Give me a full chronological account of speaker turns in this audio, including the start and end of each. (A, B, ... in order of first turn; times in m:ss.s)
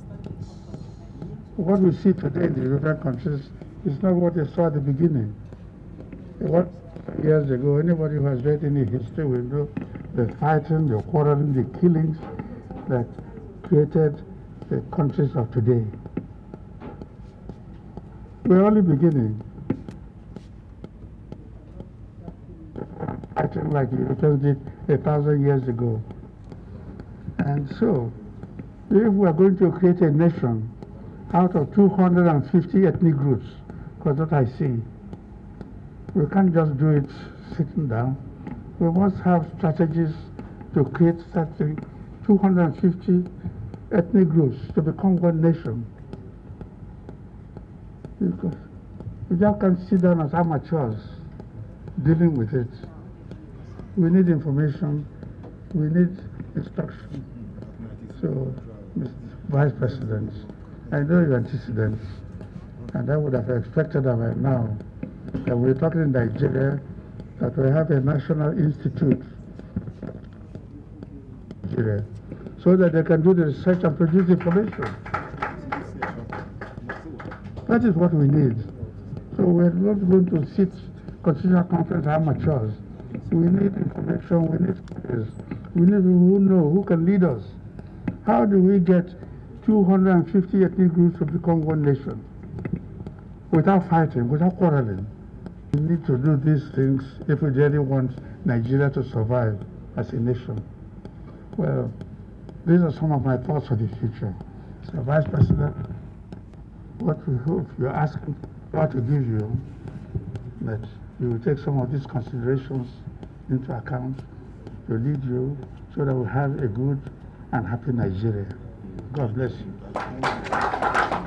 0:01.6-0:05.4 A
0:06.4-0:12.2 A
0:12.9-0:16.0 A
0:18.4-0:19.4 A
0:22.9-0:26.0 A
0:27.4-0:28.2 A
0:28.9-0:30.7 A
0:31.3-0:34.9 A
0:36.1-0:38.2 A
0:38.8-0:43.3 A
0:43.9-0:45.9 A
0:48.2-0:48.6 A
0:49.3-0:51.2 A
0:52.0-0:52.8 A
0:53.9-0:55.1 A
0:55.7-0:57.2 A
0:58.1-1:02.1 A
1:02.9-1:04.8 A
1:05.4-1:06.8 A
1:07.4-1:09.3 A
1:11.6-1:15.0 A
1:17.6-1:18.7 A
1:19.3-1:27.6 A
1:28.2-1:32.2 A
1:33.5-1:35.1 A
1:35.7-1:40.6 A
1:41.6-1:42.0 A
1:42.6-1:45.9 A
1:47.0-1:49.7 A
1:50.6-1:54.2 A
1:54.8-1:59.8 A